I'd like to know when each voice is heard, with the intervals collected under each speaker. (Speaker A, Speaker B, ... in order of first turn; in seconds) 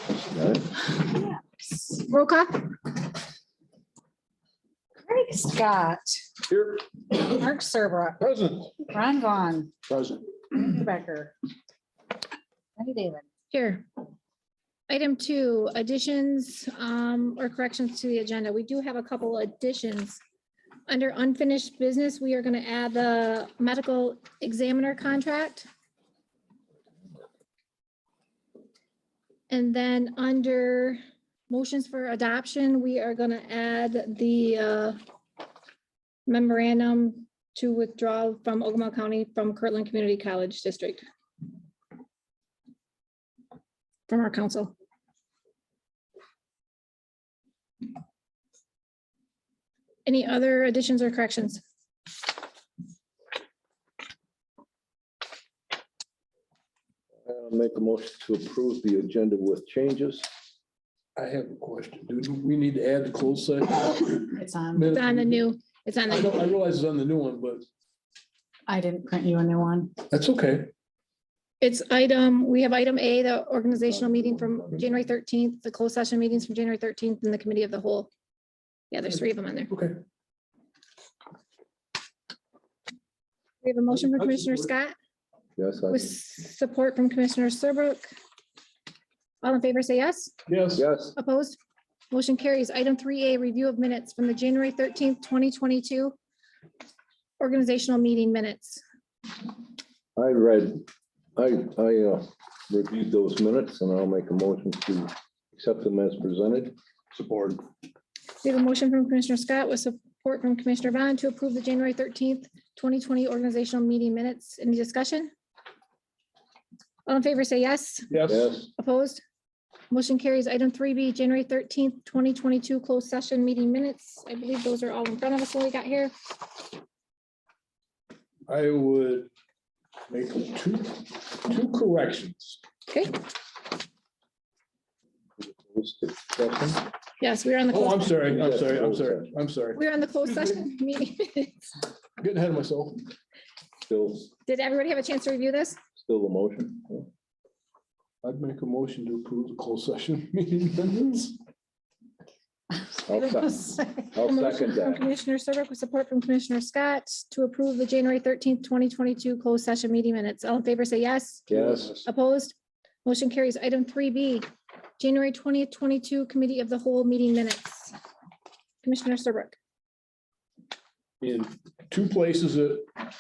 Speaker A: 0.2-0.7, 57.2-60.3, 73.8-74.9, 85.6-86.1, 90.8-91.1, 100.2-100.8, 101.3-106.7, 118.3-118.6, 135.4-136.8, 138.3-139.3, 143.9-144.3, 146.0-147.1, 153.1-153.6, 154.1-155.1, 161.5-161.9
Speaker B: 1.0-1.4, 5.0-6.3, 7.1-8.2, 8.9-9.7, 10.5-11.3, 12.8-13.2, 64.2-65.0, 68.7-70.0, 153.1-154.1
Speaker C: 1.9-2.7, 13.5-13.8, 14.9-20.2, 20.9-25.7, 29.5-35.0, 36.3-41.0, 44.1-44.7, 50.0-51.6, 64.9-66.4, 71.6-78.1, 78.9-79.7, 83.6-84.9, 85.9-88.1, 89.4-90.3, 91.2-91.6, 92.1-96.2, 97.4-98.8, 108.4-115.3, 117.1-118.1, 118.7-119.2, 119.9-126.1, 132.9-133.2, 137.2-138.3, 139.8-141.7, 144.4-145.8, 154.2-161.5, 162.0-164.4, 165.0-167.9, 168.8-169.6
Speaker D: 6.5-6.8, 8.2-8.9, 9.9-10.2, 61.1-65.5, 66.1-67.7, 70.0-70.7, 79.7-80.0, 84.0-84.7, 90.5-90.8, 107.1-107.6, 118.1-118.5, 128.5-129.3, 130.1-132.6, 137.7-140.6, 142.2-143.0, 148.2-151.4, 161.5-162.1, 171.2-172.8